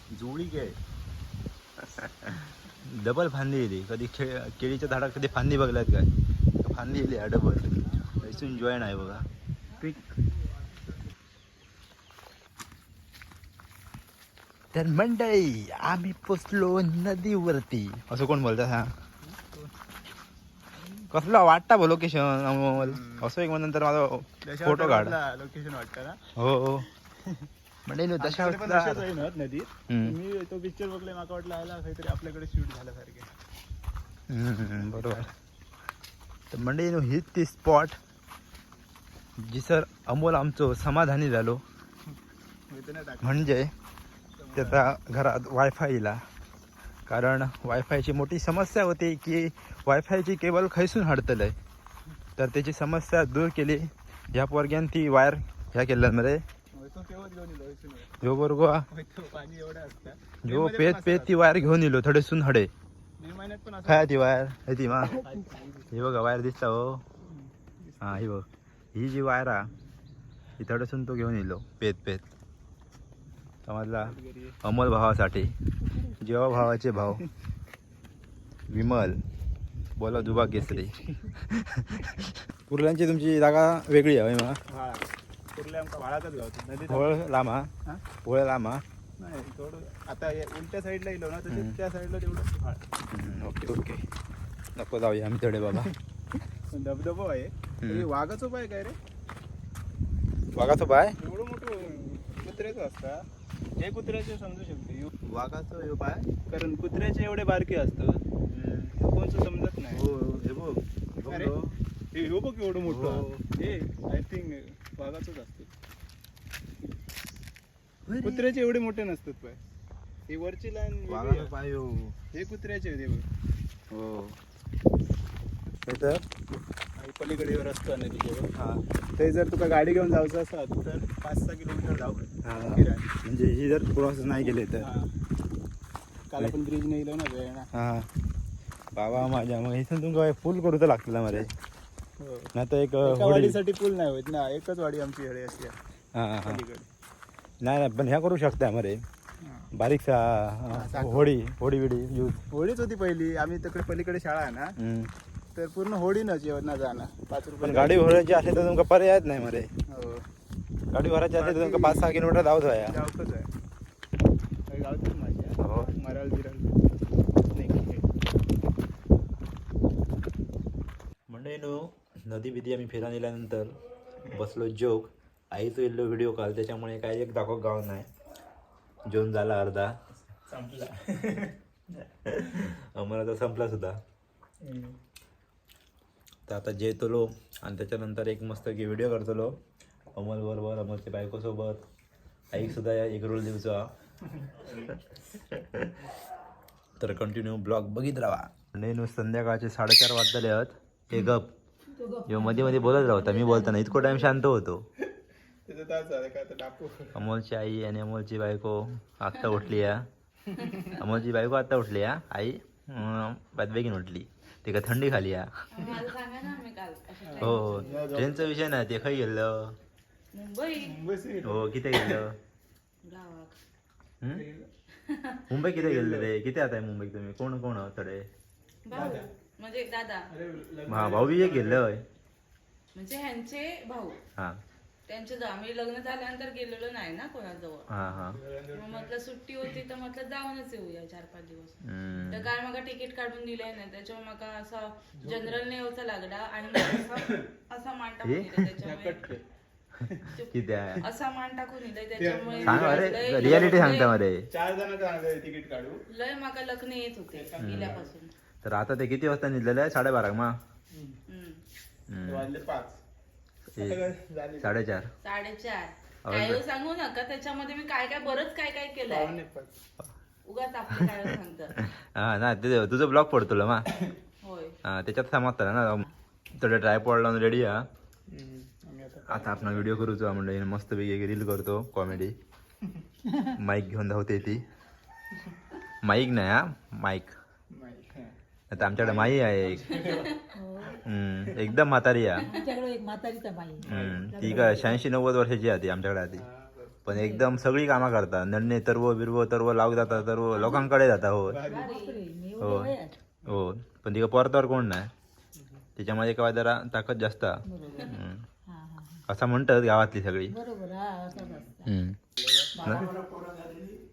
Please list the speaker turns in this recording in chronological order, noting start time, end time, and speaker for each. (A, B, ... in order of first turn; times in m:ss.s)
0:00.1-0:00.8 A
0:01.8-0:06.1 A
0:06.6-0:09.2 A
0:14.7-0:18.9 A
0:19.2-0:19.7 B
0:21.1-0:25.2 A
0:22.8-0:23.2 B
0:24.4-0:26.2 B
0:26.4-0:26.9 A
0:27.9-0:29.1 A
0:28.2-0:33.3 B
0:29.9-0:30.2 A
0:34.3-0:35.3 A
0:34.8-0:35.2 B
0:36.5-0:38.0 A
0:39.4-0:41.6 A
0:42.7-0:43.5 B
0:43.2-0:43.7 A
0:44.4-0:44.9 B
0:44.6-0:46.2 A
0:47.1-0:51.6 A
0:52.4-0:56.4 A
0:56.7-0:58.2 B
0:58.2-0:58.9 A
0:58.9-1:01.4 B
1:00.4-1:02.7 A
1:03.2-1:04.3 B
1:03.9-1:05.2 A
1:05.0-1:06.1 B
1:05.9-1:07.0 A
1:07.2-1:08.2 B
1:08.0-1:09.7 A
1:10.6-1:12.2 A
1:13.7-1:15.5 A
1:14.0-1:14.6 B
1:16.2-1:17.2 A
1:18.7-1:19.2 A
1:20.0-1:20.9 A
1:20.2-1:21.3 B
1:21.5-1:24.6 A
1:24.7-1:27.2 B
1:26.9-1:27.7 A
1:28.2-1:28.8 A
1:29.2-1:32.8 B
1:31.5-1:31.8 A
1:33.1-1:34.0 A
1:34.8-1:35.9 A
1:36.7-1:39.0 B
1:40.6-1:41.2 A
1:41.2-1:43.2 B
1:43.8-1:45.1 B
1:45.2-1:46.3 A
1:46.3-1:48.2 B
1:48.5-1:48.9 A
1:48.9-1:50.0 B
1:49.9-1:51.7 A
1:51.3-1:51.5 B
1:52.1-1:55.7 B
1:52.8-1:53.4 A
1:58.1-1:58.5 A
1:58.2-1:59.6 B
2:00.3-2:01.5 B
2:01.1-2:02.2 A
2:02.3-2:03.3 B
2:03.9-2:04.4 A
2:05.9-2:06.2 A
2:07.0-2:08.5 B
2:09.2-2:13.1 B
2:12.4-2:14.9 A
2:14.8-2:15.1 B
2:16.3-2:17.7 B
2:17.7-2:18.1 A
2:19.0-2:21.5 A
2:22.2-2:22.5 B
2:22.6-2:23.6 A
2:23.0-2:25.8 B
2:26.2-2:26.6 A
2:26.4-2:26.9 B
2:27.6-2:29.0 A
2:29.4-2:29.7 B
2:29.7-2:32.4 A
2:30.7-2:31.3 B
2:32.5-2:34.8 B
2:34.8-2:35.1 A
2:35.6-2:38.1 B
2:37.6-2:39.7 A
2:39.9-2:40.2 B
2:40.9-2:43.0 A
2:41.4-2:42.3 B
2:42.8-2:43.5 B
2:44.7-2:46.9 B
2:45.6-2:45.9 A
2:47.5-2:48.1 B
2:51.3-2:58.1 A
2:59.0-2:59.9 A
3:00.5-3:01.6 B
3:02.2-3:04.0 A
3:04.6-3:05.0 B
3:06.5-3:09.5 A
3:10.2-3:11.8 A
3:12.5-3:13.9 A
3:14.5-3:15.0 B
3:15.5-3:15.9 A
3:17.0-3:21.5 A
3:22.0-3:23.5 C
3:22.2-3:24.8 A
3:25.7-3:27.1 B
3:27.2-3:30.1 A
3:30.6-3:30.9 D
3:31.0-3:35.5 A
3:35.7-3:38.0 D
3:37.2-3:38.5 B
3:37.4-3:39.7 A
3:40.3-3:41.0 D
3:40.8-3:42.2 B
3:41.4-3:42.4 A
3:43.0-3:43.6 D
3:44.3-3:44.7 B
3:45.1-3:45.4 D
3:45.5-3:48.3 A
3:45.7-3:46.3 B
3:48.8-3:50.3 D
3:48.9-3:49.3 B
3:50.3-3:51.8 B
3:50.9-3:52.0 A
3:53.0-3:54.2 D
3:55.1-3:57.9 D
3:57.9-3:58.4 A
3:58.1-3:59.1 B
3:58.7-4:09.3 D
4:01.8-4:02.5 A
4:05.2-4:05.7 B
4:06.7-4:07.5 B
4:08.2-4:08.7 A
4:08.8-4:09.4 B
4:10.0-4:10.3 B
4:10.3-4:14.2 D
4:10.5-4:11.0 A
4:12.1-4:14.0 B
4:12.6-4:14.4 A
4:14.5-4:16.0 B
4:16.1-4:18.3 D
4:17.3-4:18.1 B
4:17.6-4:18.0 A
4:18.6-4:20.6 A
4:20.9-4:21.2 B
4:21.3-4:21.6 D
4:22.1-4:22.5 A
4:22.2-4:23.0 B
4:23.8-4:24.0 A
4:23.8-4:24.7 B
4:24.6-4:25.1 A
4:25.2-4:29.4 D
4:26.3-4:26.6 A
4:29.1-4:29.8 B
4:30.4-4:31.8 D
4:31.9-4:33.9 A
4:34.4-4:34.7 D
4:34.8-4:37.8 A
4:38.3-4:40.0 B
4:39.3-4:42.4 A
4:43.5-4:44.6 A
4:46.0-4:47.3 A
4:47.7-4:48.3 B
4:48.7-4:49.9 A
4:48.9-4:50.4 B
4:50.0-4:50.3 D
4:50.6-4:51.0 C
4:51.0-4:52.5 A
4:52.5-4:55.0 C
4:53.8-4:54.9 B
4:53.8-4:56.4 A
4:56.4-4:57.0 B
4:57.1-5:01.6 A
4:57.1-4:57.4 C
5:01.5-5:01.9 B
5:01.7-5:02.2 D
5:01.7-5:03.2 C
5:02.6-5:05.1 A
5:06.0-5:08.4 A
5:07.7-5:08.1 C
5:08.7-5:09.2 C
5:09.3-5:10.6 A
5:10.5-5:11.9 C
5:11.8-5:12.2 A
5:12.4-5:13.2 B
5:12.8-5:14.0 C